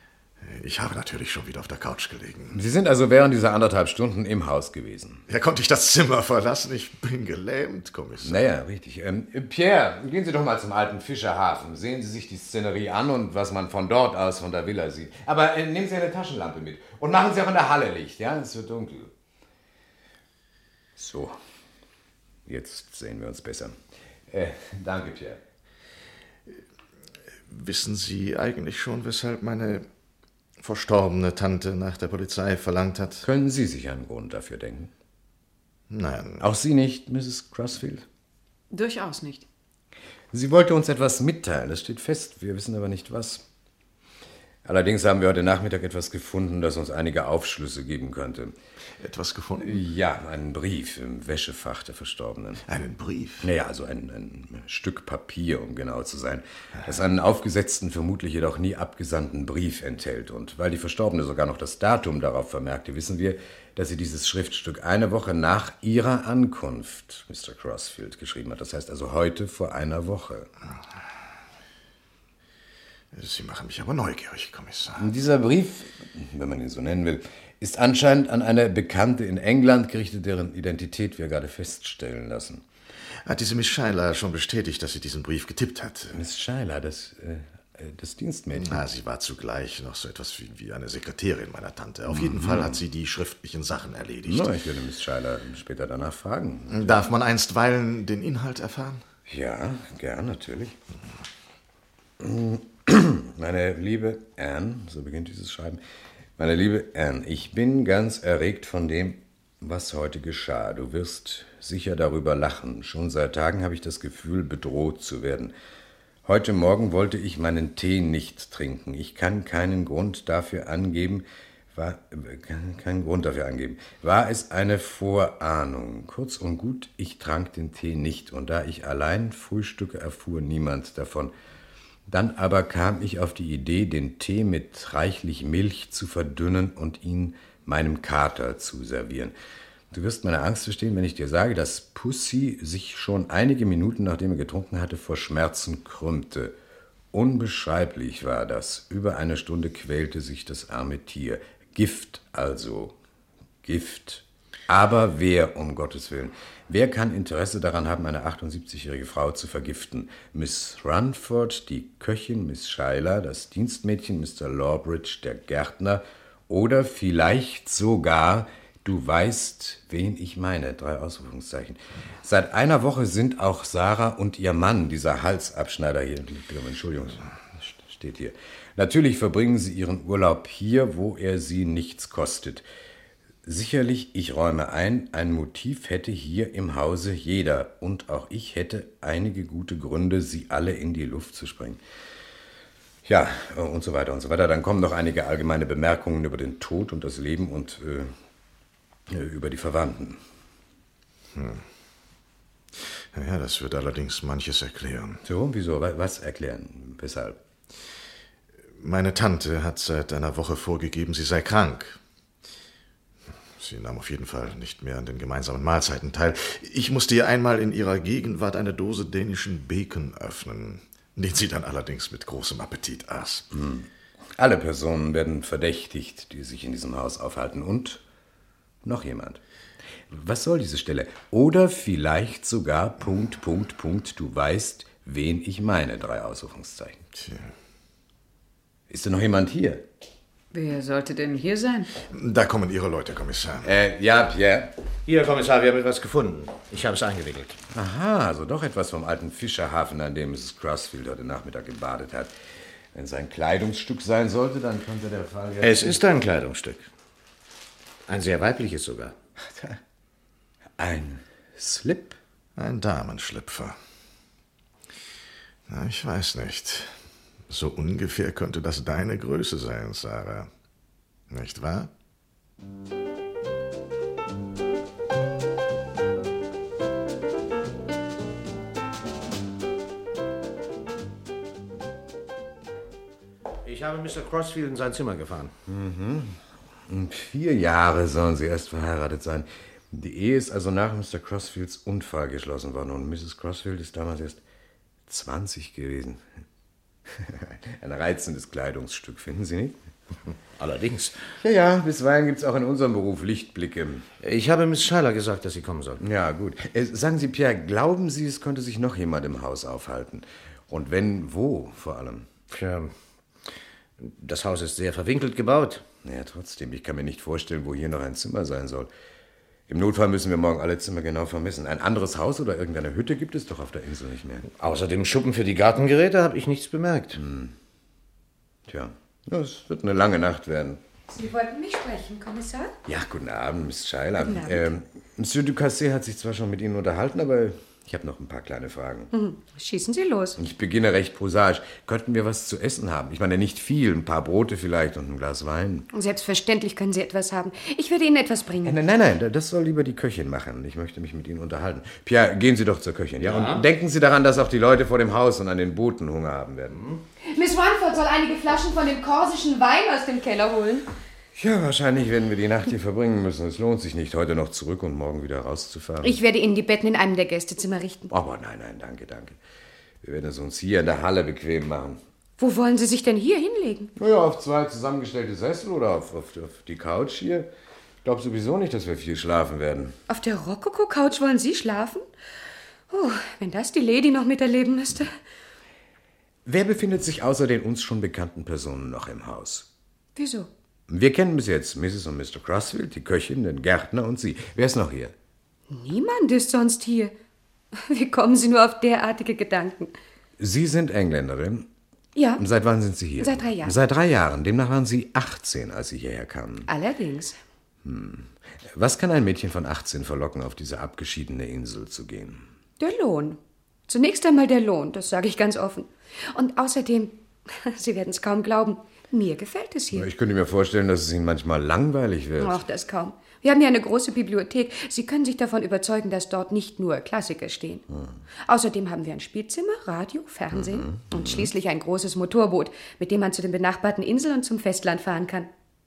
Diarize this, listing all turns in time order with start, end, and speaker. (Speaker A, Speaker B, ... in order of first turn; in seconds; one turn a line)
Speaker A: 0.4-2.6
Speaker B: 2.5-5.2
Speaker A: 5.3-8.4
Speaker B: 8.2-19.1
Speaker B: 21.0-21.4
Speaker B: 22.5-23.8
Speaker B: 24.3-25.4
Speaker A: 27.5-29.9
Speaker A: 30.6-33.2
Speaker B: 33.2-34.9
Speaker A: 35.9-36.4
Speaker B: 36.4-38.0
Speaker C: 38.7-39.5
Speaker B: 40.3-43.4
Speaker B: 44.6-48.5
Speaker A: 49.0-49.8
Speaker B: 49.6-52.6
Speaker A: 52.7-53.5
Speaker B: 53.4-70.5
Speaker A: 73.1-75.1
Speaker B: 75.0-82.6
Speaker A: 83.2-86.1
Speaker B: 86.1-88.8
Speaker A: 88.5-94.5
Speaker B: 92.1-92.8
Speaker B: 94.2-97.0
Speaker A: 96.7-99.0
Speaker B: 99.3-100.8
Speaker B: 102.2-105.8
Speaker B: 106.4-115.5
Speaker B: 116.2-131.3
Speaker B: 132.1-139.3
Speaker B: 139.9-146.6
Speaker B: 147.1-153.0
Speaker B: 153.6-182.6
Speaker B: 183.4-191.8
Speaker B: 193.0-198.1
Speaker B: 199.1-200.2
Speaker A: 201.3-201.6
Speaker A: 203.1-205.2
Speaker B: 205.2-207.4
Speaker A: 208.8-212.0
Speaker A: 213.6-223.5
Speaker B: 223.5-228.0
Speaker B: 228.8-229.4
Speaker B: 230.1-237.0
Speaker A: 237.2-237.5
Speaker B: 238.9-239.9
Speaker C: 240.5-241.9
Speaker A: 242.1-243.7
Speaker B: 243.6-244.7
Speaker D: 245.1-247.6
Speaker B: 247.7-252.3
Speaker B: 252.9-256.0
Speaker D: 255.6-256.9
Speaker D: 258.1-259.1
Speaker B: 260.8-262.2
Speaker A: 262.6-263.8
Speaker A: 265.7-266.9
Speaker A: 267.5-270.5
Speaker A: 271.3-271.9
Speaker D: 283.6-285.5
Speaker B: 285.7-294.4
Speaker B: 295.1-296.2
Speaker B: 297.1-299.8
Speaker D: 300.6-301.1
Speaker B: 301.4-304.1
Speaker D: 304.2-306.0
Speaker B: 306.0-312.3
Speaker D: 312.5-312.9
Speaker D: 314.0-315.8
Speaker B: 316.0-318.9
Speaker B: 319.7-324.5
Speaker D: 324.5-327.2
Speaker B: 327.1-327.5
Speaker B: 328.7-330.8
Speaker E: 331.1-332.8
Speaker B: 332.9-339.1
Speaker E: 334.2-334.7
Speaker E: 339.1-340.4
Speaker B: 340.4-345.9
Speaker E: 345.9-348.8
Speaker B: 348.6-356.8
Speaker D: 353.2-353.6
Speaker D: 356.8-357.0
Speaker E: 357.2-360.9
Speaker B: 361.4-366.2
Speaker E: 366.0-368.1
Speaker B: 368.1-369.4
Speaker B: 370.0-372.0
Speaker E: 372.4-373.9
Speaker B: 374.0-377.5
Speaker B: 378.0-379.9
Speaker E: 380.1-382.0
Speaker E: 382.9-385.1
Speaker B: 386.4-389.7
Speaker E: 390.1-390.5
Speaker B: 390.9-395.1
Speaker E: 395.7-397.1
Speaker E: 397.7-399.9
Speaker B: 400.4-401.7
Speaker E: 402.1-402.4
Speaker B: 402.4-406.7
Speaker E: 403.2-403.8
Speaker E: 406.7-407.4
Speaker B: 407.8-412.5
Speaker E: 412.8-420.1
Speaker B: 419.9-422.6
Speaker E: 422.4-427.9
Speaker E: 428.4-435.5
Speaker B: 430.5-431.5